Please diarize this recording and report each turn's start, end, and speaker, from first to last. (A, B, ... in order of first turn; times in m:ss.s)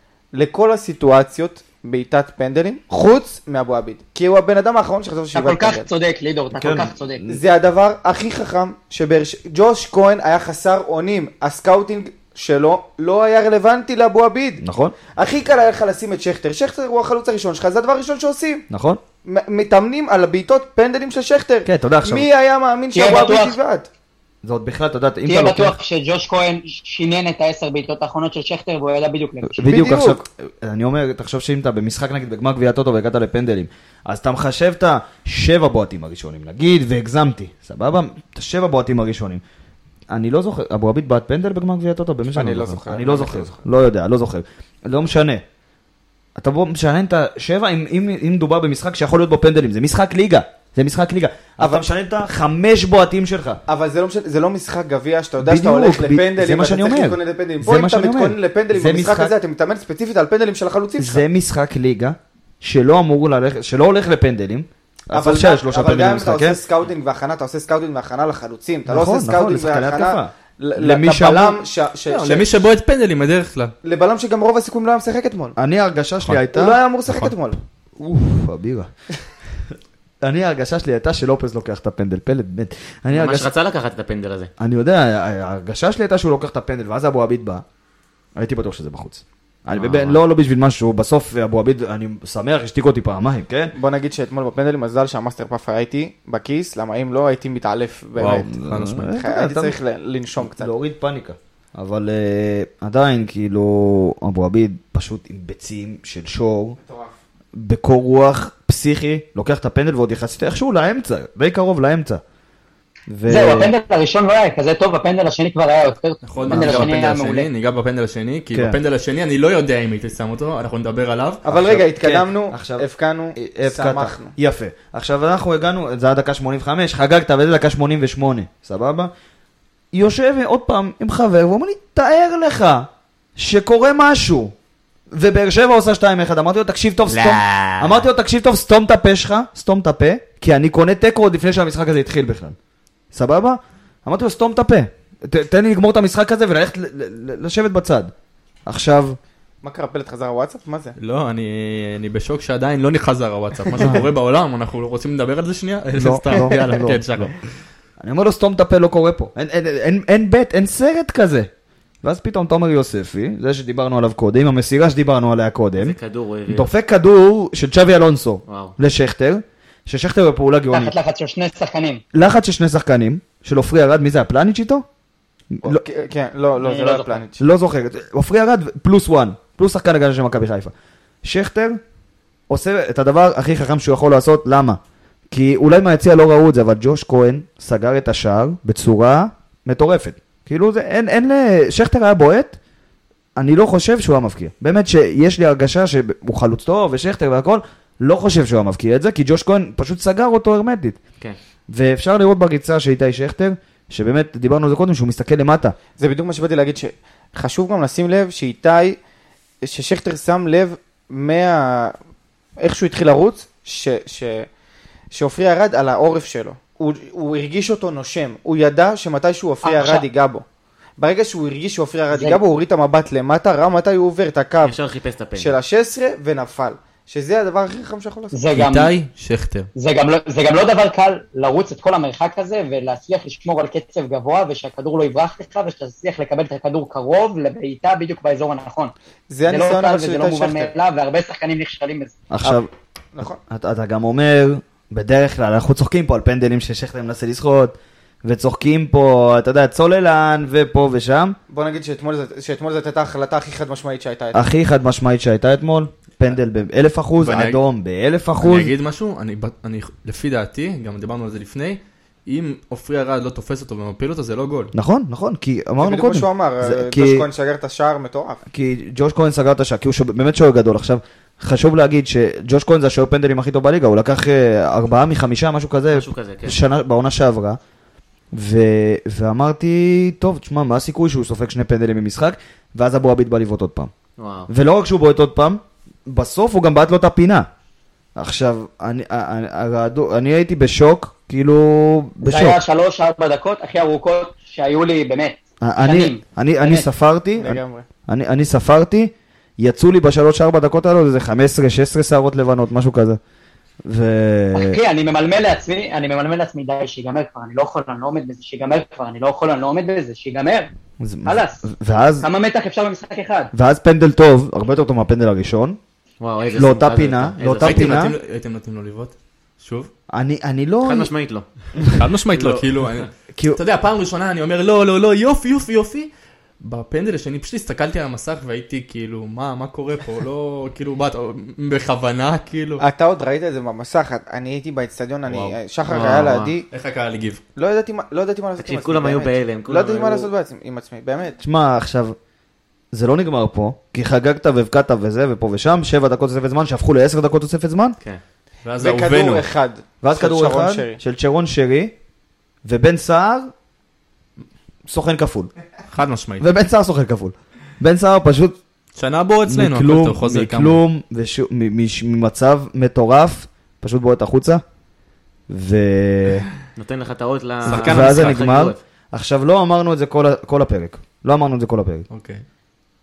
0:00.3-0:05.9 A
0:05.3-0:07.2 B
0:06.5-0:07.4 C
0:07.3-0:14.6 A
0:14.6-0:15.0 C
0:15.1-0:18.6 A
0:18.7-0:19.0 C
0:19.2-0:23.9 A
0:21.6-0:22.3 C
0:22.9-0:23.6 B
0:24.4-0:25.8 C
0:25.2-0:29.6 B
0:29.4-0:39.4 C
0:29.6-0:30.2 A
0:40.1-0:45.4 C
0:42.3-0:43.6 A
0:46.4-0:53.6 C
0:51.6-0:51.9 A
0:53.7-1:01.2 A
0:55.4-0:59.3 C
1:01.0-1:06.6 C
1:05.1-1:12.5 A
1:08.9-1:11.6 C
1:12.1-1:13.7 D
1:13.8-1:15.6 A
1:15.6-1:17.3 C
1:16.4-1:17.6 A
1:18.0-1:18.9 C
1:19.7-1:23.5 C
1:23.1-1:24.5 E
1:24.6-1:27.6 C
1:28.4-1:33.7 C
1:29.7-1:30.2 E
1:33.7-1:38.5 A
1:38.2-1:39.1 D
1:38.3-1:39.7 C
1:39.1-1:40.7 A
1:40.4-1:46.8 C
1:46.8-1:47.1 A
1:47.5-1:52.2 C
1:53.1-1:53.7 C
1:53.3-1:57.5 B
1:56.3-2:01.4 D
1:56.4-1:56.9 C
1:58.5-1:58.8 C
2:01.4-2:04.3 A
2:01.5-2:09.1 C
2:09.9-2:14.5 C
2:15.1-2:22.6 C
2:17.1-2:18.0 E
2:23.1-2:28.1 C
2:28.6-2:29.2 C
2:29.6-2:30.9 A
2:31.0-2:37.4 D
2:33.8-2:34.0 C
2:36.0-2:37.3 C
2:38.0-2:41.5 C
2:42.0-2:46.0 C
2:45.8-2:46.7 E
2:46.5-2:50.9 C
2:48.5-2:48.8 E
2:50.7-2:52.0 B
2:52.1-2:54.8 C
2:55.5-2:55.8 C
2:55.6-2:57.4 A
2:56.6-2:57.1 B
2:57.4-3:00.7 C
3:01.2-3:01.8 C
3:02.5-3:04.8 C
3:05.3-3:12.6 C
3:13.4-3:21.0 C
3:21.7-3:25.7 C
3:26.0-3:29.0 A
3:29.6-3:31.9 A
3:32.6-3:34.5 A
3:35.1-3:40.4 A
3:39.6-3:40.0 B
3:41.0-3:44.8 A
3:42.1-3:42.4 B
3:44.6-3:45.6 E
3:45.4-3:48.3 A
3:48.3-3:48.9 B
3:48.5-3:49.7 D
3:49.7-3:58.9 B
3:59.3-4:00.7 A
3:59.5-4:02.1 B
4:02.3-4:02.7 C
4:03.1-4:03.4 A
4:03.5-4:11.4 C
4:11.5-4:14.5 A
4:14.3-4:18.7 C
4:17.2-4:17.6 D
4:18.4-4:24.7 D
4:24.7-4:27.2 C
4:25.8-4:28.4 A
4:28.5-4:37.6 C
4:35.9-4:36.6 E
4:38.3-4:43.9 C
4:44.2-4:44.5 E
4:44.5-4:47.5 C
4:48.2-4:52.6 C
4:52.2-4:56.9 B
4:55.6-5:03.2 C
4:57.4-4:57.8 A
5:03.8-5:04.8 C
5:04.5-5:10.7 B
5:11.0-5:12.3 C
5:11.2-5:11.6 B
5:12.2-5:13.5 B
5:13.5-5:15.8 C
5:16.2-5:18.1 E
5:16.5-5:18.2 C
5:17.6-5:19.9 D
5:20.1-5:21.1 C
5:20.8-5:21.4 E
5:21.8-5:22.5 C
5:22.0-5:32.8 D
5:32.8-5:36.6 A
5:35.2-5:37.4 D
5:37.6-5:41.4 A
5:38.6-5:40.3 E
5:41.4-5:42.2 C
5:42.9-5:48.0 C
5:48.6-5:49.4 D
5:48.8-5:51.0 A
5:50.0-5:51.9 C
5:52.6-5:53.5 C
5:54.9-5:55.5 C
5:55.9-5:56.5 D
5:56.4-5:58.6 C
5:59.0-6:00.8 D
5:59.5-6:04.6 C
6:05.5-6:06.5 C
6:06.8-6:08.8 E
6:07.6-6:08.4 D
6:07.7-6:12.1 C
6:12.1-6:12.4 D